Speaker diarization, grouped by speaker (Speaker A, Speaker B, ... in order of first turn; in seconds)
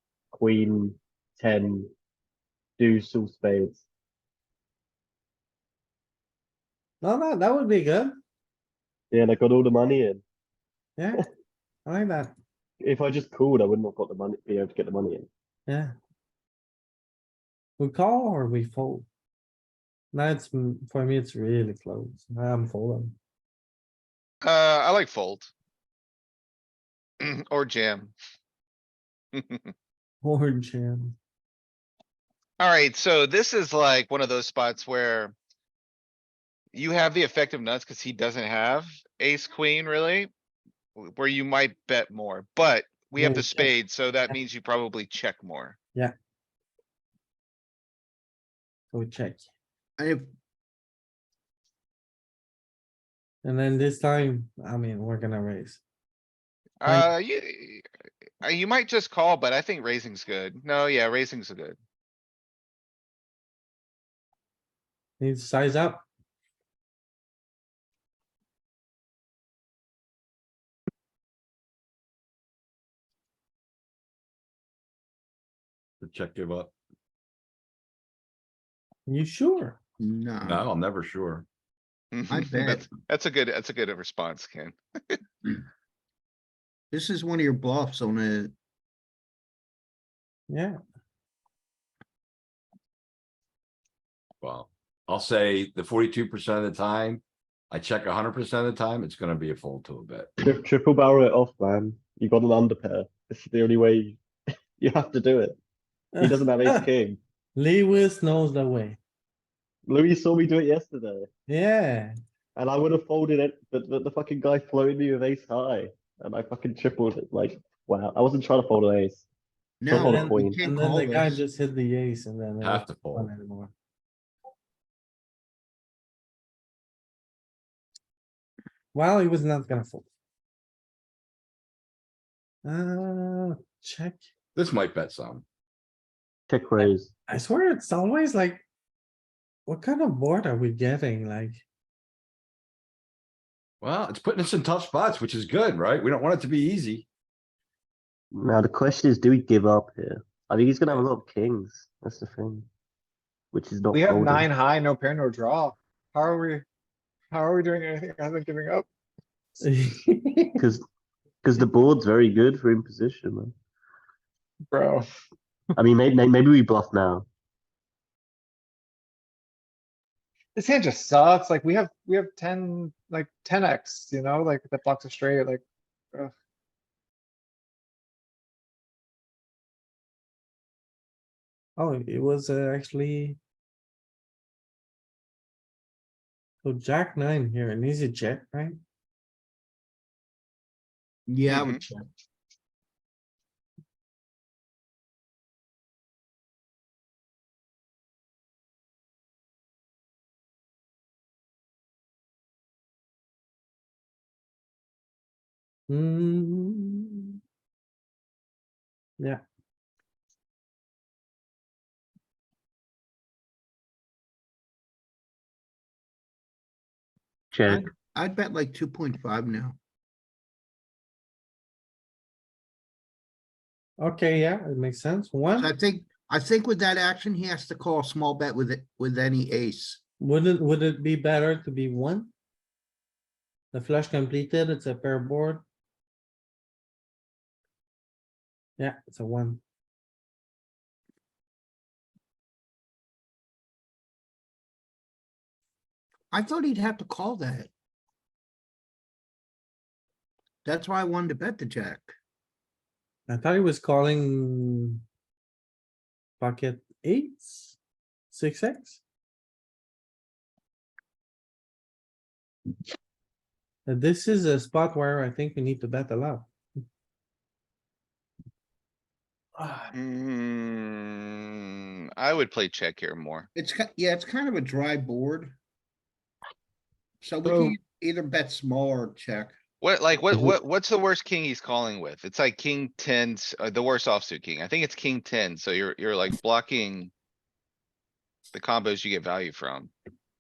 Speaker A: 0.3-1.9, 2.8-3.8, 9.1-10.2, 12.8-15.3, 100.4-104.2, 104.8-105.6, 106.2-107.2, 109.9-111.3, 112.6-119.3, 119.9-120.6, 136.5-137.1, 148.3-152.7, 153.5-154.5, 161.4-163.5, 165.8-167.3, 217.5-217.9, 280.3-280.6
Speaker B: 7.0-8.2, 11.0-11.3, 11.9-12.4, 15.7-15.9, 17.8-19.1, 20.1-23.2, 30.2-31.2, 43.2-43.7, 48.9-49.5, 53.4-55.8, 65.2-66.0, 79.1-79.8, 90.5-90.8, 106.2-106.9, 107.6-109.0, 111.5-112.1, 119.9-123.7, 128.9-130.1, 132.6-134.2, 136.8-138.6, 139.7-141.6, 159.6-160.6, 181.8-183.4, 186.6-188.8, 205.9-207.4, 224.0-225.7, 230.2-232.3, 233.7-235.6, 238.8-239.6, 253.3-255.0, 256.4-257.8, 258.3-259.0, 263.9-266.5, 269.6-269.9
Speaker C: 24.4-25.5, 27.2-28.1, 29.4-29.7, 32.6-35.3, 36.7-40.3, 41.0-45.8, 56.8-57.8, 58.4-61.8, 82.1-85.2, 191.5-191.8, 269.9-273.5, 279.8-287.1, 288.5-289.9
Speaker D: 50.0-50.3, 80.0-80.6, 82.3-82.9, 86.9-88.5, 119.8-121.4, 191.3-192.1, 217.7-219.8, 225.6-230.0, 246.3-247.7, 250.7-252.1, 273.6-275.6, 277.2-279.5
Speaker E: 76.0-76.7, 80.4-81.5, 94.4-100.3, 122.6-123.3, 134.6-135.4, 143.8-147.1
Speaker F: 153.9-156.7, 157.3-158.9, 164.7-165.1, 170.6-175.6